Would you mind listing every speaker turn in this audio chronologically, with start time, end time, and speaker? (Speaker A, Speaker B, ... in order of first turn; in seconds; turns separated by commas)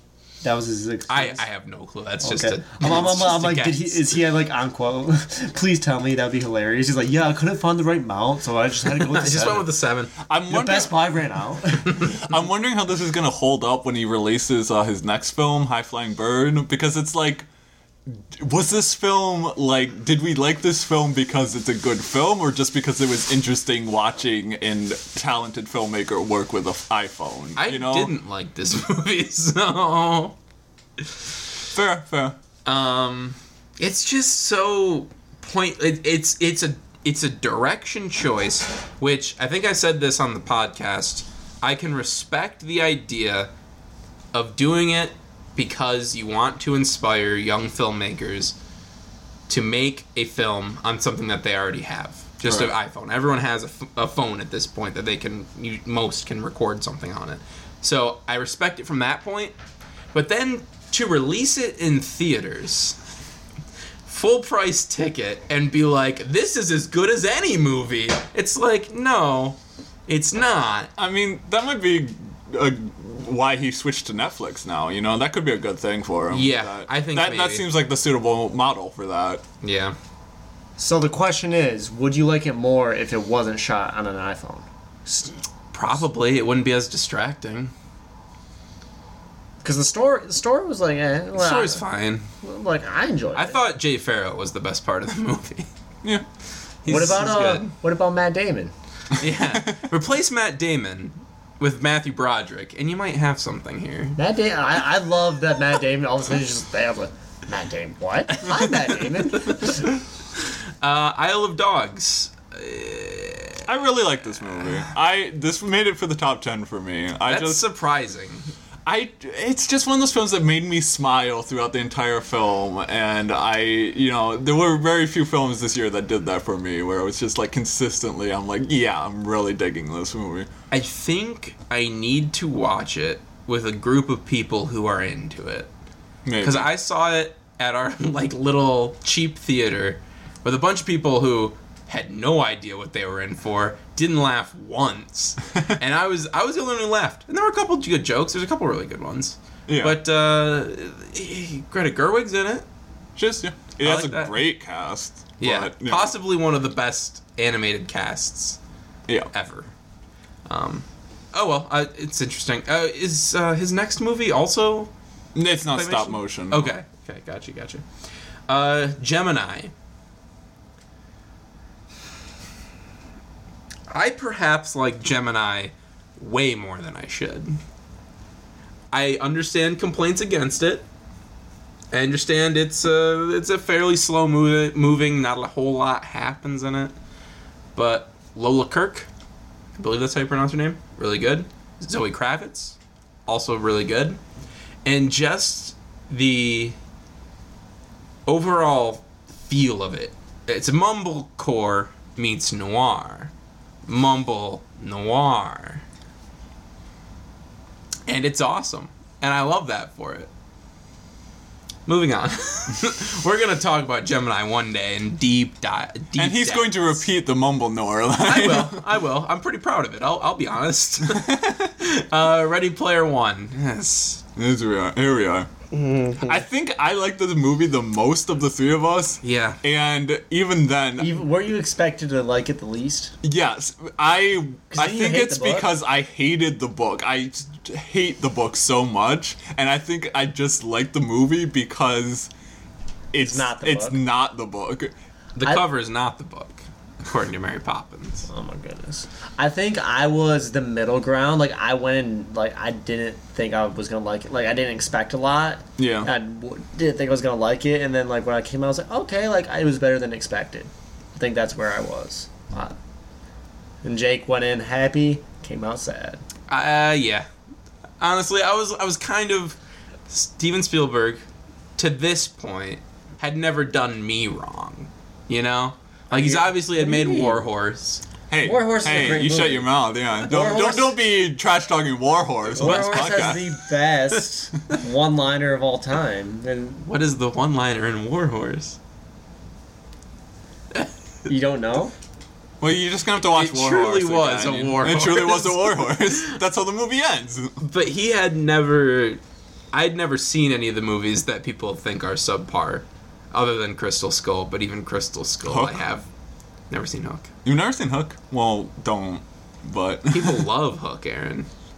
Speaker A: 0.4-1.4, Speaker B: 1.1-4.2, Speaker A: 2.2-9.7, Speaker B: 8.9-10.1, Speaker C: 10.3-10.9, Speaker A: 10.5-12.1, Speaker C: 11.8-17.5, Speaker C: 18.1-28.1, Speaker B: 27.6-30.4, Speaker C: 31.7-32.4, Speaker B: 32.6-43.5, Speaker B: 44.3-48.6, Speaker B: 49.5-59.5, Speaker C: 52.4-52.7, Speaker B: 60.1-63.0, Speaker B: 64.1-70.9, Speaker C: 71.0-79.4, Speaker B: 76.3-77.7, Speaker B: 79.6-80.0, Speaker A: 80.8-85.3, Speaker B: 85.7-87.7, Speaker A: 89.6-91.8, Speaker B: 91.3-92.3, Speaker A: 92.4-93.6, Speaker B: 93.3-95.7, Speaker B: 96.8-97.7, Speaker A: 96.9-98.7, Speaker B: 99.2-104.2, Speaker C: 99.5-99.8, Speaker A: 104.2-109.9, Speaker B: 109.3-109.7, Speaker B: 110.8-113.6, Speaker C: 113.6-117.7, Speaker B: 117.3-118.5, Speaker C: 118.9-130.5, Speaker B: 130.7-135.7, Speaker C: 136.2-136.7, Speaker B: 136.4-152.7, Speaker C: 149.7-150.0, Speaker C: 153.2-156.1, Speaker B: 153.8-154.4, Speaker B: 155.4-158.6, Speaker B: 159.3-159.7, Speaker B: 160.5-164.9, Speaker C: 165.3-166.7, Speaker B: 165.7-167.8, Speaker B: 168.5-169.7, Speaker B: 173.9-177.6, Speaker B: 178.9-180.8, Speaker B: 181.9-186.9, Speaker B: 187.8-189.1, Speaker B: 189.8-194.2, Speaker B: 194.8-196.8, Speaker B: 198.3-203.3, Speaker B: 203.9-205.8, Speaker B: 208.1-210.3, Speaker B: 211.9-217.0, Speaker C: 216.2-218.8, Speaker B: 218.2-224.2, Speaker C: 221.1-221.7, Speaker C: 224.4-225.5, Speaker A: 225.8-226.2, Speaker C: 226.2-231.2, Speaker B: 229.2-229.6, Speaker A: 231.0-233.2, Speaker C: 233.2-242.3, Speaker A: 234.7-235.7, Speaker C: 243.1-244.9, Speaker A: 243.2-244.0, Speaker B: 245.4-248.3, Speaker A: 248.3-262.8, Speaker C: 255.8-256.1, Speaker A: 263.8-266.2, Speaker B: 266.5-267.3, Speaker B: 268.0-269.6, Speaker B: 270.1-271.2, Speaker B: 271.8-278.0, Speaker A: 276.1-277.4, Speaker C: 278.3-283.5, Speaker A: 278.4-281.0, Speaker A: 282.6-286.8, Speaker B: 282.6-283.3, Speaker B: 286.8-288.8, Speaker A: 291.3-291.9, Speaker C: 292.6-297.6, Speaker B: 293.3-296.4, Speaker B: 297.6-299.2, Speaker B: 299.7-306.1, Speaker C: 305.5-305.8, Speaker B: 306.7-307.3, Speaker C: 307.4-310.5, Speaker B: 310.1-311.5